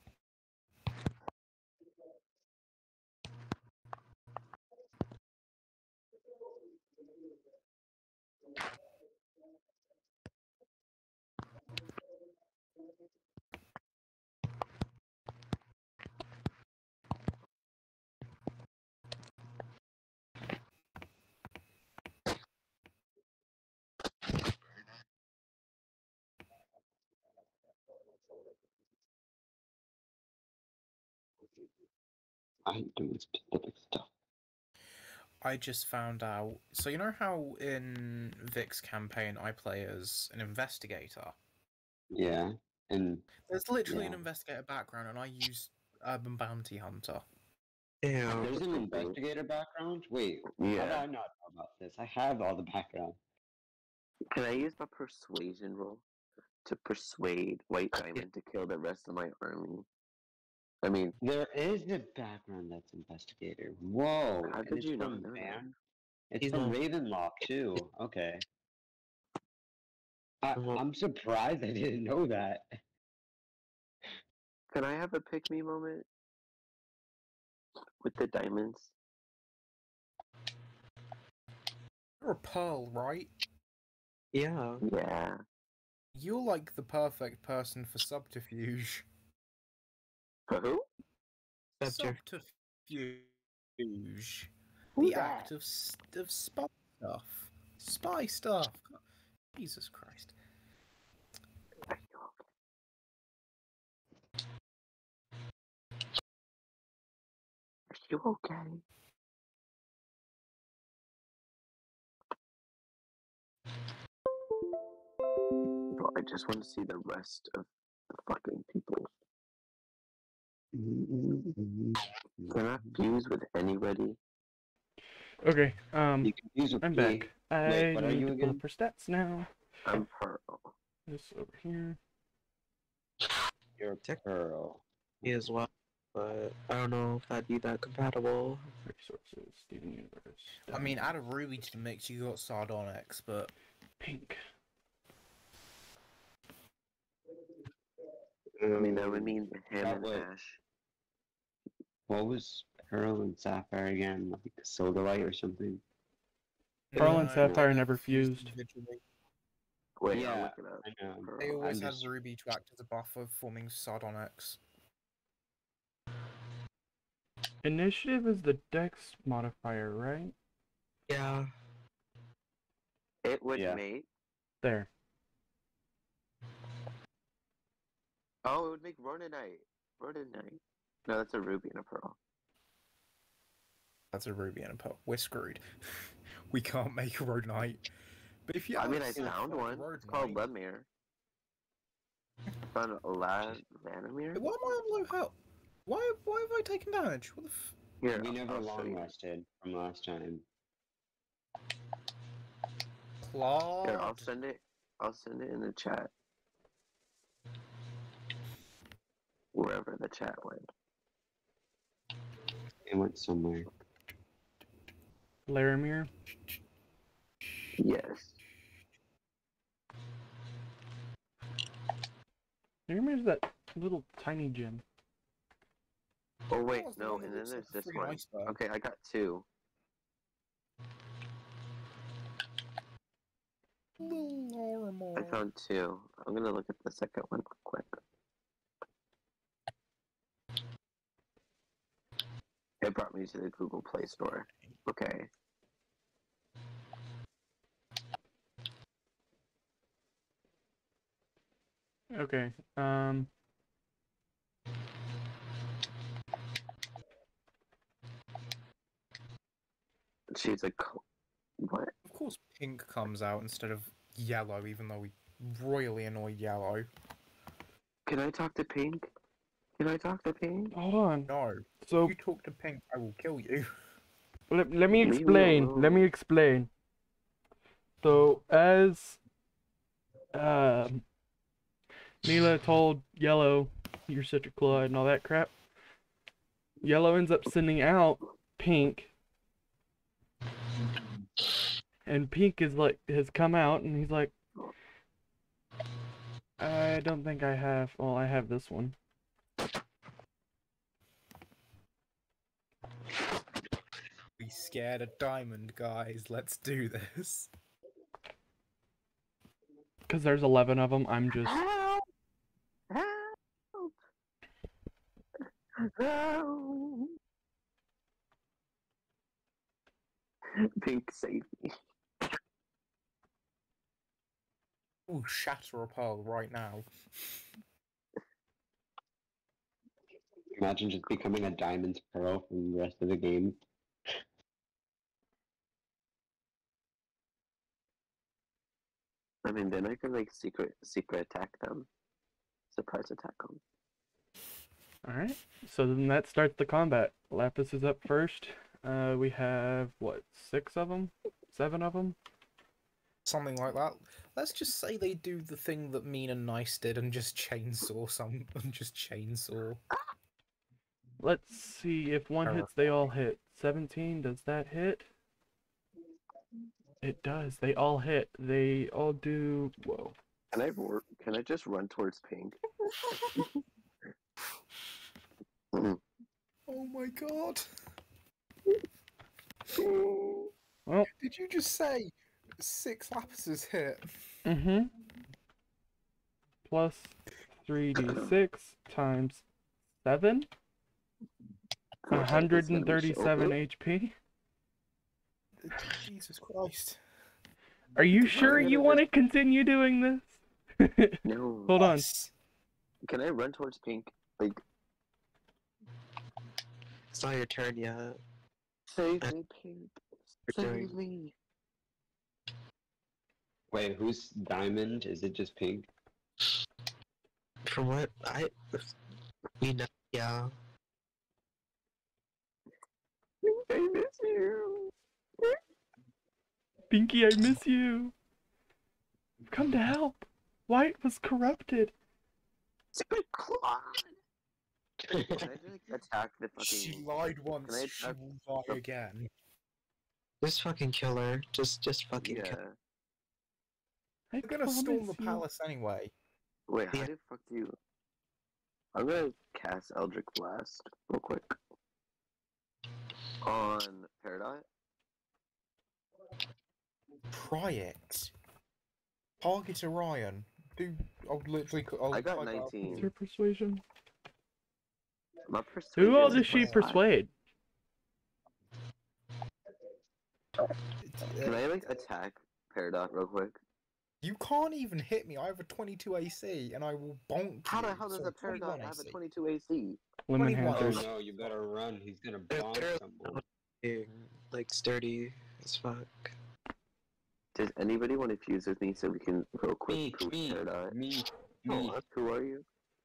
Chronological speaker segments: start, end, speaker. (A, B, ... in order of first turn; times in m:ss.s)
0:32.7-0:34.1 A
0:35.4-0:41.4 B
0:42.1-0:43.2 A
0:43.4-0:47.2 B
0:43.9-0:44.2 A
0:48.0-0:48.5 C
0:48.4-0:53.2 A
0:48.4-0:49.2 D
0:50.5-0:51.0 D
0:54.3-0:56.0 D
0:56.6-0:59.9 D
1:00.8-1:01.2 D
1:01.2-1:05.7 A
1:04.4-1:05.7 D
1:06.3-1:08.4 A
1:06.4-1:06.8 C
1:10.4-1:12.7 A
1:10.6-1:10.8 C
1:14.7-1:16.1 D
1:18.0-1:18.9 D
1:22.2-1:23.3 B
1:24.3-1:24.8 C
1:24.8-1:25.4 D
1:26.2-1:29.0 B
1:30.5-1:30.8 D
1:31.8-1:32.2 C
1:31.8-1:38.9 B
1:35.0-1:35.5 D
1:39.6-1:40.3 B
1:41.9-1:42.4 D
1:47.9-1:48.8 D
1:55.9-1:59.1 D
2:00.7-2:02.6 A
2:02.5-2:04.2 D
2:05.4-2:09.5 E
2:06.2-2:08.6 A
2:09.9-2:10.7 D
2:11.1-2:12.0 E
2:13.8-2:14.8 A
2:15.2-2:18.7 C
2:18.8-2:21.1 E
2:20.7-2:23.5 B
2:24.0-2:24.4 E
2:28.6-2:30.3 A
2:28.8-2:30.6 D
2:32.1-2:35.8 A
2:36.9-2:39.0 B
2:37.0-2:38.5 E
2:37.0-2:37.7 A
2:40.0-2:41.8 D
2:40.1-2:42.1 A
2:41.4-2:44.6 B
2:47.6-2:50.4 E
2:51.1-2:51.5 C
2:53.2-2:54.1 D
2:53.6-2:53.8 A
2:54.6-2:54.9 E
2:58.5-3:02.2 D
3:04.1-3:05.7 B
3:06.5-3:07.8 B
3:08.5-3:10.4 B
3:08.8-3:10.9 D
3:12.7-3:14.4 D
3:14.4-3:15.4 B
3:15.9-3:17.8 B
3:18.0-3:19.1 D
3:18.1-3:20.4 A
3:23.2-3:24.3 B
3:23.8-3:26.1 D
3:29.5-3:30.6 D
3:32.9-3:33.7 A
3:35.5-3:36.1 E
3:37.8-3:38.4 D
3:42.9-3:44.8 E
3:46.5-3:49.5 D
3:46.7-3:48.6 B
3:54.0-3:55.4 B
3:55.2-3:58.0 D
4:02.8-4:05.3 D
4:12.1-4:13.3 E
4:20.3-4:21.0 D
4:21.6-4:21.9 D
4:22.1-4:26.9 B
4:28.1-4:29.1 D
4:29.8-4:30.7 D
4:30.7-4:32.2 E
4:31.3-4:33.7 B
4:34.5-4:36.7 E
4:35.0-4:36.1 D
4:38.0-4:39.2 E
4:40.3-4:41.0 E
4:42.2-4:45.5 E
4:46.8-4:49.1 E
4:52.1-4:54.3 E
4:56.6-4:59.0 E
5:04.4-5:07.5 B
5:10.1-5:11.6 E
5:11.5-5:12.1 D
5:12.9-5:13.9 D
5:15.8-5:17.1 D
5:20.6-5:21.7 D
5:25.1-5:26.9 B
5:30.6-5:33.6 A
5:39.4-5:41.9 D
5:42.7-5:43.6 D
5:45.0-5:52.2 E
5:53.2-5:59.8 B
6:01.2-6:05.1 E
6:07.0-6:10.2 E
6:10.5-6:12.6 D
6:15.7-6:16.0 D
6:16.7-6:17.6 B
6:19.8-6:20.5 D
6:21.2-6:24.4 B
6:24.5-6:24.9 E
6:26.7-6:29.4 E
6:28.0-6:28.3 D
6:30.0-6:30.5 E
6:32.1-6:33.6 D
6:32.1-6:34.2 E
6:35.6-6:37.0 B
6:38.0-6:42.1 E
6:38.3-6:39.0 D
6:38.5-6:38.7 B
6:41.2-6:41.8 D
6:41.8-6:42.3 C
6:43.1-6:44.6 D
6:47.1-6:48.2 C
6:48.9-6:51.3 D
6:50.5-6:51.0 C
6:53.7-6:55.9 A
6:57.7-6:58.9 C
6:59.6-7:00.5 C
7:03.5-7:04.9 D
7:06.9-7:08.1 E
7:09.5-7:11.9 E
7:13.0-7:14.1 D
7:15.1-7:15.5 C
7:15.3-7:17.1 D
7:16.6-7:19.3 B
7:17.6-7:18.2 D
7:20.4-7:22.6 C
7:22.2-7:22.8 D
7:24.3-7:25.4 E
7:24.4-7:26.1 B
7:26.7-7:27.8 D
7:29.0-7:31.6 D
7:33.4-7:34.7 D
7:37.3-7:38.3 B
7:39.4-7:43.1 B
7:42.1-7:43.1 D
7:42.9-7:43.8 E
7:45.5-7:47.0 D
7:46.0-7:47.3 E
7:46.2-7:46.9 B
7:51.0-7:51.9 B
7:51.4-7:53.6 D
7:54.2-7:59.2 B
7:57.7-8:00.0 D
8:00.3-8:01.1 E
8:00.4-8:01.6 B
8:00.6-8:03.4 A
8:02.5-8:06.3 C
8:07.6-8:11.0 D
8:09.9-8:10.6 C
8:10.3-8:12.0 A
8:11.7-8:12.0 C
8:12.0-8:12.6 D